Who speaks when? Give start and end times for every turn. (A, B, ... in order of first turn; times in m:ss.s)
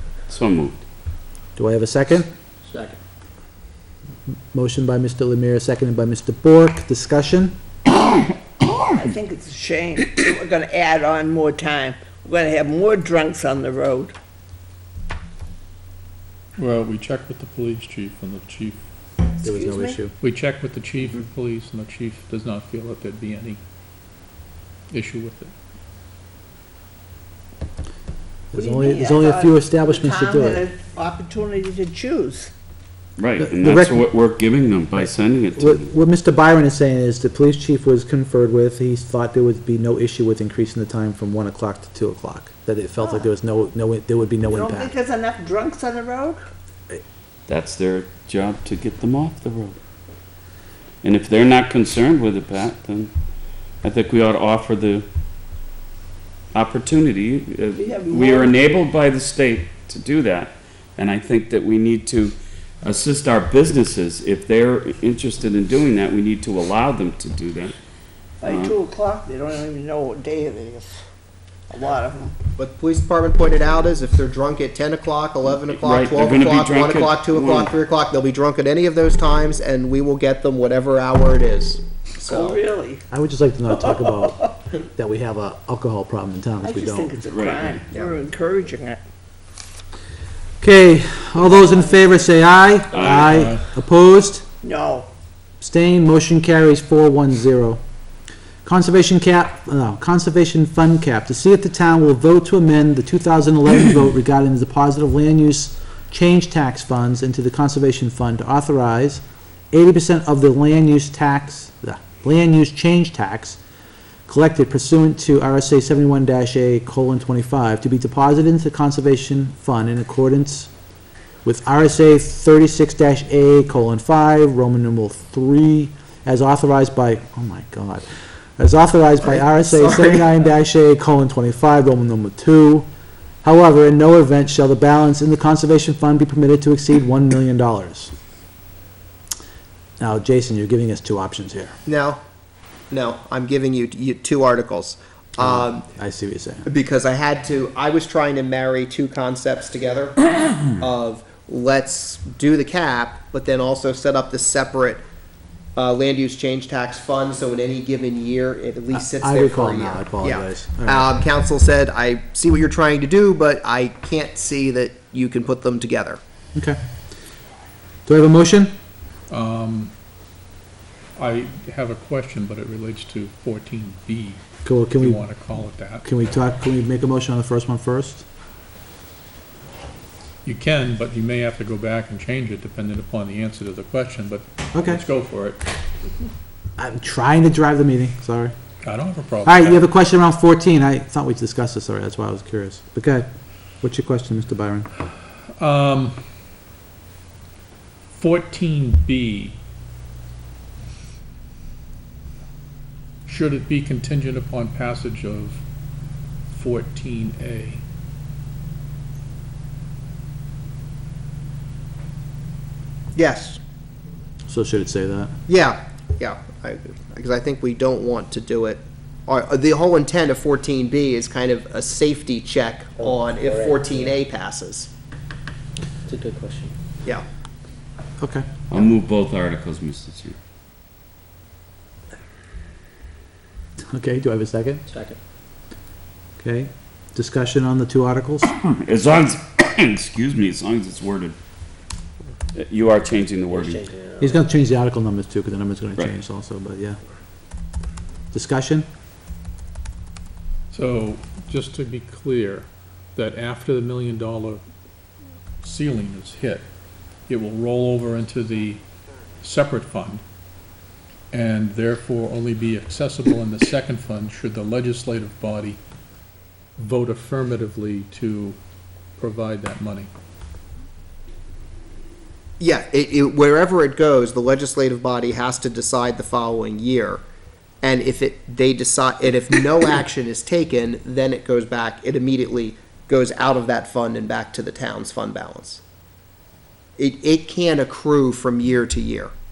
0:00.3-0:00.8 A
0:01.6-0:02.3 B
0:04.5-0:07.5 B
0:08.9-0:14.1 C
0:16.6-0:18.8 D
0:19.4-0:20.0 C
0:19.4-0:20.1 B
0:20.2-0:23.6 D
0:24.9-0:25.5 D
0:28.5-0:30.6 B
0:28.5-0:32.5 C
0:33.2-0:35.8 A
0:33.4-0:34.0 B
0:35.5-0:44.9 B
0:43.0-0:43.3 C
0:44.4-0:46.4 C
0:47.5-0:49.8 A
0:51.0-0:53.1 A
0:53.8-0:55.0 A
0:56.5-1:07.8 A
0:57.8-0:58.5 C
1:08.4-1:10.9 C
1:08.4-1:08.7 A
1:11.7-1:12.3 C
1:12.6-1:22.6 E
1:15.7-1:17.7 A
1:22.2-1:23.0 C
1:23.1-1:27.2 B
1:24.0-1:24.5 C
1:26.6-1:29.0 C
1:27.3-1:27.8 A
1:30.6-1:34.4 B
1:31.4-1:32.2 C
1:32.9-1:33.6 A
1:33.2-1:33.6 D
1:34.6-1:35.1 C
1:35.6-1:37.8 B
1:38.6-1:53.6 B
1:54.3-2:00.7 B
2:01.4-2:08.0 B
2:08.6-2:12.9 B
2:09.3-2:10.2 E
2:13.4-2:18.1 B
2:20.0-2:21.8 B
2:21.8-2:22.2 E
2:22.9-2:25.9 E
2:25.4-2:26.7 B
2:26.6-2:30.2 E
2:30.8-2:35.0 E
2:35.8-2:46.2 E
2:38.9-2:41.1 B
2:48.0-2:48.7 B
2:49.3-2:49.9 D
2:51.2-2:54.4 D
2:54.6-2:55.2 B
2:55.0-2:56.0 D
2:56.0-2:58.2 B
3:00.4-3:05.6 D
3:04.7-3:05.0 B
3:06.8-3:08.5 B
3:08.8-3:09.8 D
3:09.4-3:13.3 B
3:13.8-3:14.9 B
3:15.6-3:16.2 D
3:18.1-3:19.6 D
3:23.2-3:25.6 D
3:26.5-3:27.8 D
3:33.1-3:33.6 E
3:34.5-3:35.3 B
3:35.5-3:44.9 E
3:43.0-3:44.2 F
3:46.1-3:46.7 F
3:48.2-3:48.5 B
3:48.7-3:50.4 A
3:53.9-3:54.8 B
3:54.9-3:55.2 F
3:56.4-3:58.5 B
3:58.6-4:01.4 A
4:02.5-4:03.9 A
4:04.2-4:07.0 B
4:08.3-4:08.9 B
4:10.7-4:14.6 D
4:15.6-4:16.7 D
4:17.3-4:18.8 D
4:19.4-4:20.2 D
4:21.3-4:25.8 D
4:26.8-4:28.6 D
4:29.2-4:30.1 D
4:32.6-4:37.2 E
4:37.8-4:45.8 E
4:47.0-4:49.3 E